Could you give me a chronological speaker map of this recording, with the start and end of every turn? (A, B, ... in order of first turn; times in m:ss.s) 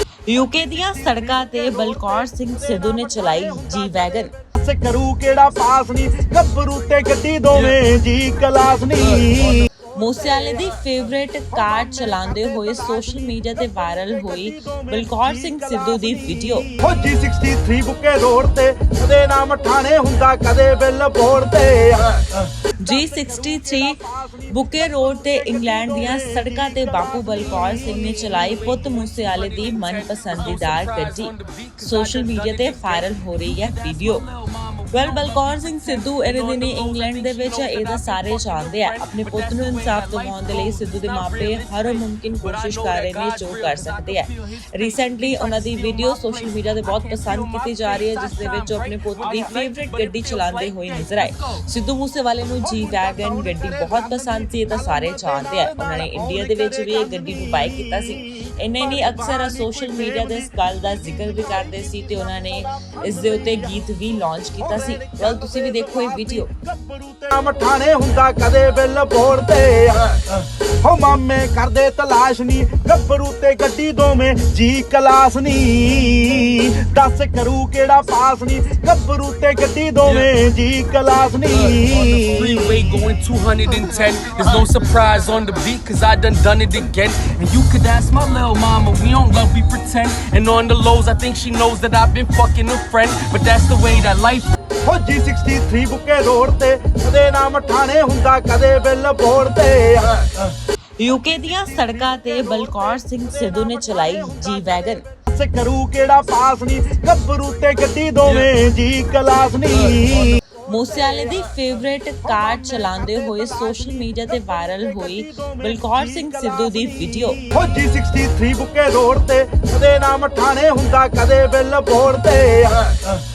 0:00.3-0:04.3 A
0:04.5-0:09.7 B
0:09.9-0:16.7 A
0:16.7-0:22.3 B
0:22.8-0:34.2 A
0:28.4-0:51.7 C
0:34.9-1:06.6 A
0:57.1-0:57.9 B
1:04.9-1:10.3 B
1:10.8-1:22.0 B
1:20.0-1:20.3 C
1:21.5-1:34.5 C
1:34.8-1:40.3 B
1:41.0-1:45.0 A
1:45.3-1:50.4 B
1:50.7-1:57.4 A
1:57.5-2:03.0 B